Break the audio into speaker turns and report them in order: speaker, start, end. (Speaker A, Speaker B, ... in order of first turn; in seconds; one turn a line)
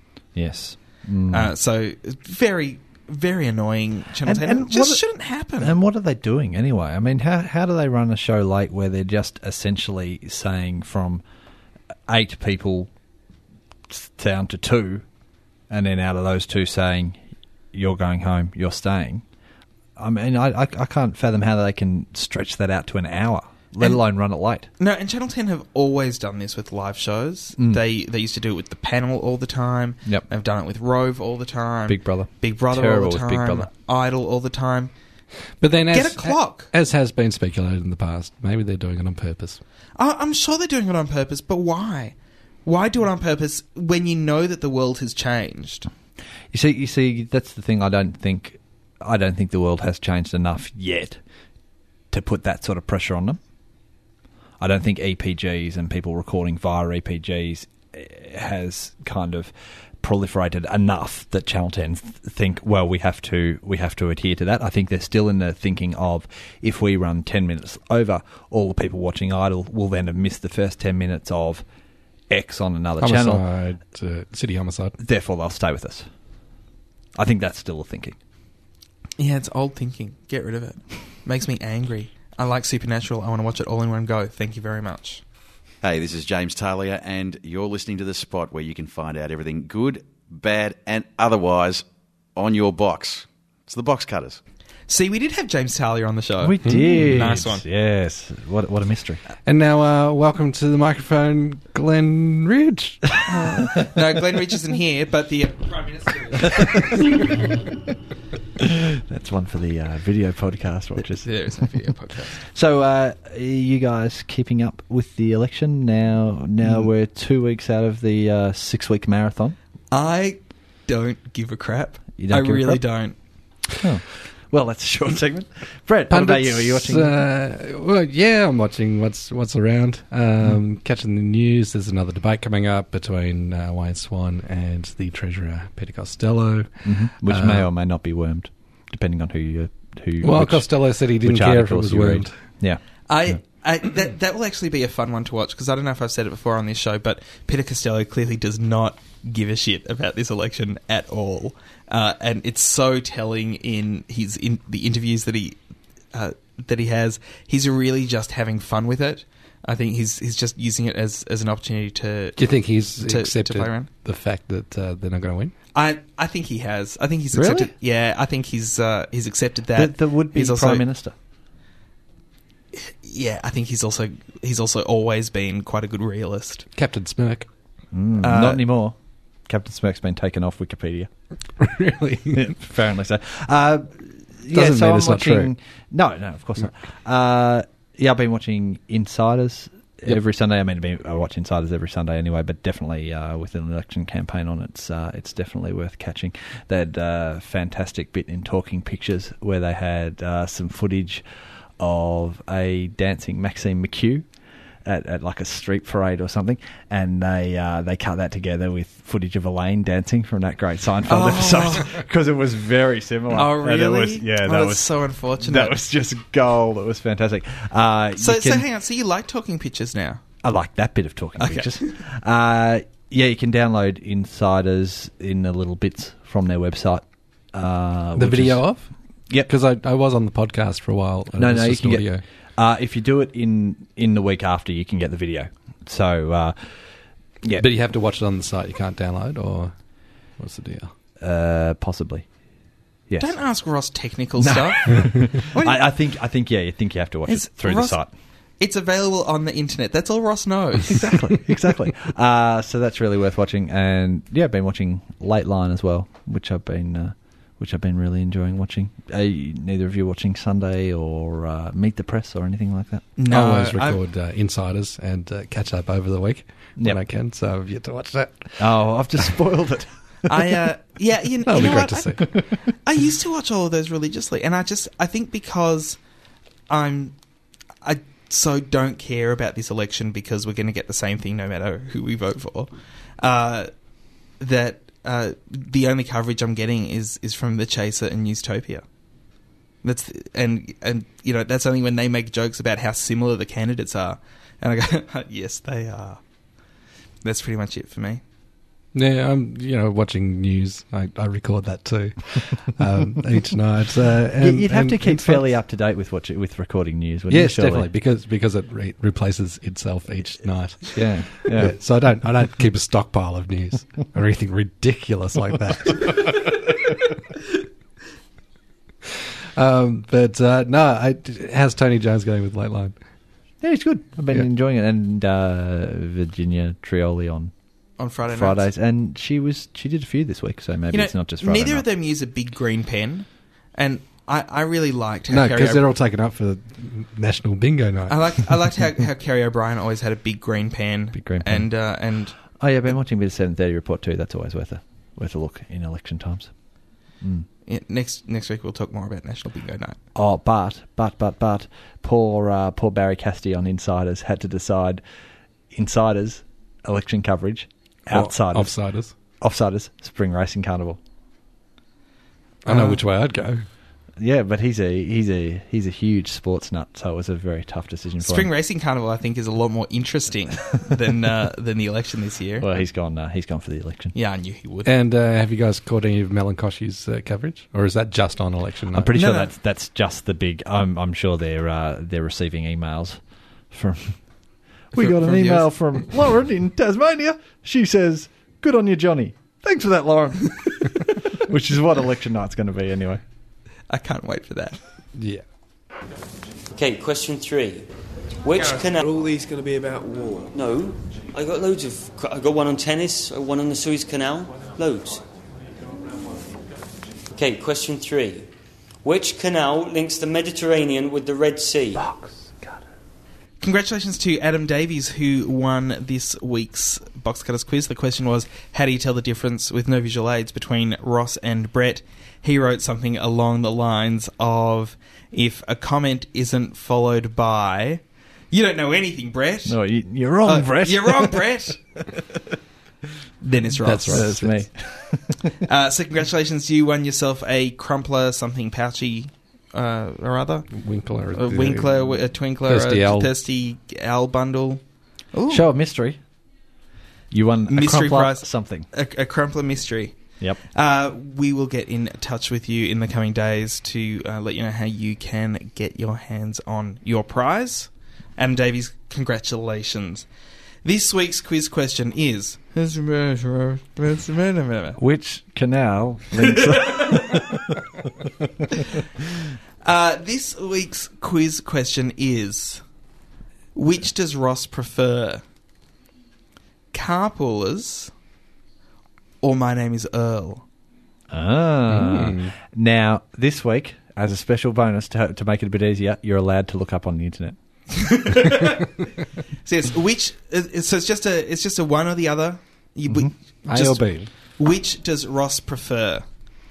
Speaker A: 0.3-1.5
Speaker B: 1.3-5.8
Speaker A: 4.2-5.0
Speaker A: 5.6-11.2
Speaker A: 12.1-12.9
Speaker A: 13.9-15.1
Speaker A: 15.7-17.2
Speaker A: 17.7-19.2
Speaker A: 20.0-24.7
Speaker B: 24.8-34.9
Speaker A: 31.9-33.7
Speaker C: 35.6-39.6
Speaker B: 35.9-36.7
Speaker B: 40.0-45.9
Speaker A: 46.5-51.2
Speaker A: 52.1-53.4
Speaker A: 54.6-71.7
Speaker A: 72.3-73.4
Speaker C: 73.0-75.0
Speaker A: 75.0-76.1
Speaker A: 77.2-78.2
Speaker B: 79.2-85.2
Speaker D: 85.8-94.4
Speaker B: 94.9-97.6
Speaker A: 96.4-99.2
Speaker C: 96.6-97.1
Speaker C: 99.5-103.2
Speaker B: 103.6-107.2
Speaker A: 108.6-111.7
Speaker B: 111.2-112.5
Speaker A: 112.5-119.6
Speaker B: 119.9-123.2
Speaker A: 122.2-122.8
Speaker A: 123.8-127.2
Speaker C: 126.1-137.7
Speaker A: 136.8-143.4
Speaker C: 140.2-142.3
Speaker B: 143.1-155.6
Speaker B: 156.1-163.9
Speaker C: 162.4-165.5
Speaker B: 165.7-170.8
Speaker A: 167.3-167.7
Speaker A: 169.8-171.2
Speaker B: 172.8-176.7
Speaker C: 176.8-177.5
Speaker A: 177.9-179.0
Speaker B: 178.2-178.6
Speaker A: 179.5-181.1
Speaker C: 181.6-182.5
Speaker A: 182.3-201.2
Speaker C: 184.5-185.5
Speaker A: 201.8-204.3
Speaker A: 204.8-214.9
Speaker B: 211.1-212.0
Speaker B: 213.3-215.8
Speaker A: 215.4-218.7
Speaker B: 218.2-220.2
Speaker A: 220.4-228.7
Speaker B: 221.4-222.0
Speaker C: 228.2-232.2
Speaker A: 231.4-236.8
Speaker C: 237.6-239.8
Speaker C: 240.4-240.9
Speaker A: 241.2-242.3
Speaker A: 243.1-243.4
Speaker B: 243.2-245.9
Speaker A: 244.4-248.1
Speaker B: 247.3-248.0
Speaker B: 248.6-251.4
Speaker A: 250.9-263.1
Speaker B: 263.2-264.0
Speaker C: 263.3-268.6
Speaker A: 268.6-270.5
Speaker B: 270.3-276.0
Speaker C: 271.5-272.2
Speaker B: 276.7-277.1
Speaker B: 277.8-283.7
Speaker B: 284.4-288.8
Speaker B: 289.8-296.2
Speaker B: 297.2-298.2
Speaker C: 298.9-305.4
Speaker A: 304.4-307.9
Speaker C: 307.3-316.6
Speaker A: 310.9-311.8
Speaker C: 319.6-323.0
Speaker A: 323.6-327.5
Speaker B: 328.0-328.6
Speaker A: 328.3-331.9
Speaker B: 330.9-335.9
Speaker C: 335.3-338.5
Speaker B: 338.1-342.4
Speaker A: 341.1-341.7
Speaker A: 342.6-346.5
Speaker A: 347.2-347.5
Speaker B: 347.7-350.0
Speaker A: 350.1-355.0
Speaker A: 355.7-358.8
Speaker C: 358.1-359.1
Speaker A: 359.4-361.0
Speaker C: 362.6-363.6
Speaker A: 362.7-363.0
Speaker A: 364.2-368.5
Speaker B: 368.2-372.7
Speaker A: 372.6-374.1
Speaker B: 374.1-374.9
Speaker C: 374.9-379.1
Speaker A: 378.9-384.2
Speaker B: 379.1-379.5
Speaker A: 384.9-393.2
Speaker B: 385.0-385.7
Speaker B: 393.9-394.8
Speaker C: 395.2-395.4
Speaker E: 396.7-397.9
Speaker E: 398.4-399.0
Speaker F: 398.6-400.6
Speaker E: 400.6-405.2
Speaker E: 407.3-408.5
Speaker E: 409.0-412.1
Speaker A: 412.0-412.7
Speaker B: 413.6-429.8
Speaker A: 429.7-431.6
Speaker B: 430.4-431.8
Speaker B: 433.4-434.3
Speaker C: 433.8-434.6
Speaker A: 434.1-435.5
Speaker B: 435.6-440.7
Speaker C: 440.7-442.0
Speaker B: 441.3-444.8
Speaker C: 442.7-443.3
Speaker B: 445.3-445.7
Speaker A: 445.5-446.2
Speaker A: 447.3-448.9
Speaker B: 447.7-450.2
Speaker B: 450.7-460.3
Speaker B: 460.8-465.0
Speaker A: 465.0-467.8
Speaker B: 466.4-467.4
Speaker B: 469.8-472.8
Speaker B: 473.8-475.4
Speaker B: 476.9-478.1
Speaker B: 479.4-480.6
Speaker A: 481.3-487.6
Speaker C: 481.9-482.5
Speaker B: 487.9-488.9
Speaker B: 489.6-496.2
Speaker C: 493.7-494.3